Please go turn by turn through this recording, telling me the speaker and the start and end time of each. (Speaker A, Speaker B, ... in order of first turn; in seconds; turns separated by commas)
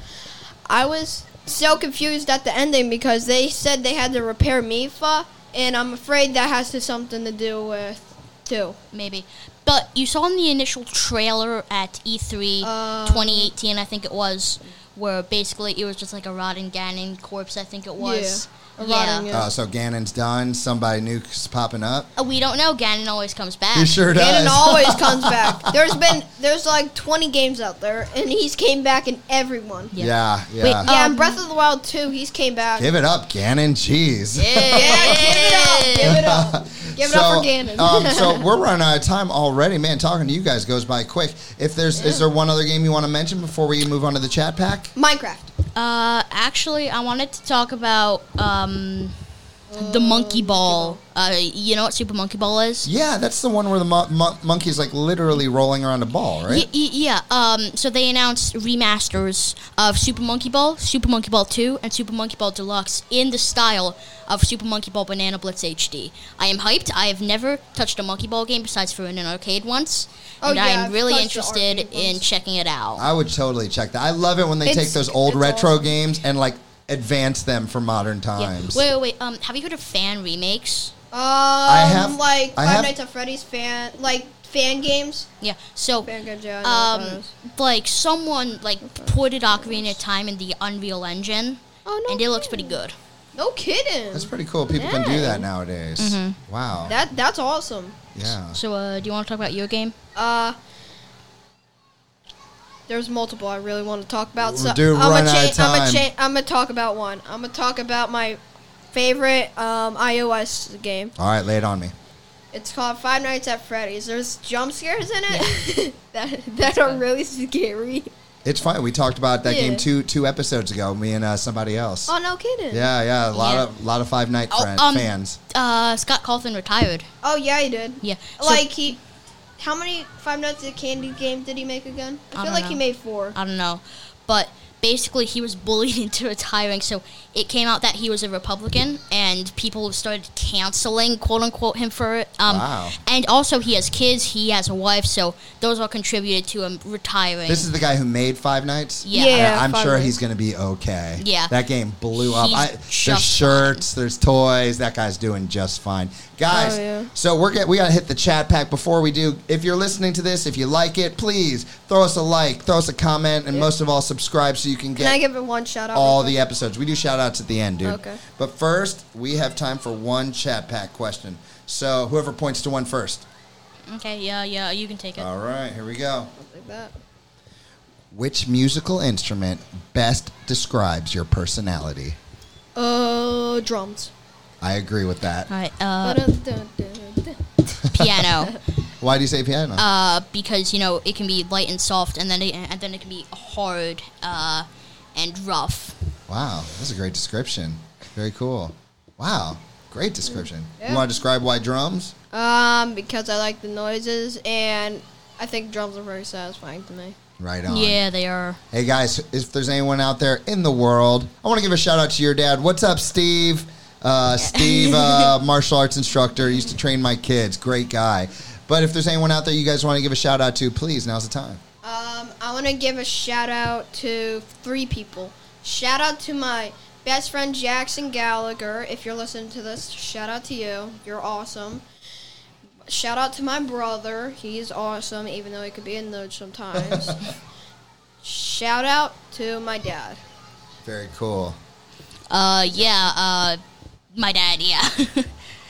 Speaker A: 0.7-8.8, Speaker B: 8.9-19.3, Speaker A: 12.6-13.5, Speaker A: 18.0-19.5, Speaker C: 19.3-22.1, Speaker B: 22.1-24.0, Speaker C: 23.7-26.0, Speaker A: 24.1-29.9, Speaker B: 29.9-31.4, Speaker C: 30.0-30.9, Speaker A: 30.8-32.9, Speaker C: 32.8-35.2, Speaker B: 34.3-36.2, Speaker A: 34.7-38.5, Speaker C: 36.0-44.9, Speaker A: 41.9-42.2, Speaker A: 44.9-45.5, Speaker B: 45.7-49.2, Speaker A: 49.7-51.0, Speaker B: 49.7-52.9, Speaker C: 52.8-56.7, Speaker B: 56.5-73.1, Speaker A: 70.4-72.3, Speaker C: 73.0-78.8, Speaker A: 74.6-75.8, Speaker B: 78.3-80.9, Speaker A: 81.1-85.3, Speaker C: 81.7-82.9, Speaker B: 85.4-86.1, Speaker A: 86.0-87.3, Speaker B: 86.6-93.0, Speaker A: 88.8-90.0, Speaker A: 91.8-92.8, Speaker A: 93.3-95.5, Speaker C: 94.1-97.0, Speaker B: 96.0-96.4, Speaker A: 96.9-98.0, Speaker C: 98.1-98.6, Speaker B: 98.2-99.9, Speaker A: 100.2-100.5, Speaker A: 102.9-108.4, Speaker C: 104.4-106.1, Speaker A: 108.9-111.1, Speaker C: 111.2-111.9, Speaker A: 112.5-118.1, Speaker B: 116.6-117.0, Speaker C: 118.4-122.1, Speaker A: 119.4-119.8, Speaker A: 122.1-122.9, Speaker C: 122.7-125.4, Speaker B: 123.3-123.7, Speaker B: 124.5-127.0, Speaker A: 127.2-129.0, Speaker B: 128.0-128.7, Speaker A: 129.6-133.3, Speaker B: 132.3-132.8, Speaker B: 133.3-147.7, Speaker C: 142.4-143.0, Speaker C: 147.5-165.2, Speaker B: 149.0-149.5, Speaker A: 149.1-150.2, Speaker B: 151.2-151.6, Speaker B: 152.1-153.8, Speaker A: 156.5-157.1, Speaker A: 164.9-166.4, Speaker C: 165.9-173.2, Speaker A: 167.8-168.2, Speaker B: 173.9-175.3, Speaker C: 175.2-176.3, Speaker A: 176.3-176.9, Speaker C: 178.1-182.2, Speaker A: 182.8-184.1, Speaker C: 184.6-185.5, Speaker B: 185.5-186.3, Speaker A: 186.0-187.4, Speaker C: 187.8-188.2, Speaker B: 187.9-188.6, Speaker C: 189.0-189.8, Speaker B: 189.8-196.0, Speaker C: 196.3-202.1, Speaker A: 200.8-201.1, Speaker A: 202.3-207.2, Speaker C: 207.4-208.0, Speaker B: 207.7-208.6, Speaker C: 208.7-221.6, Speaker B: 214.3-215.3, Speaker A: 221.8-231.8, Speaker A: 232.8-237.2, Speaker A: 238.2-240.2, Speaker C: 240.8-241.6, Speaker B: 242.3-243.6, Speaker A: 242.7-243.1, Speaker B: 244.1-245.3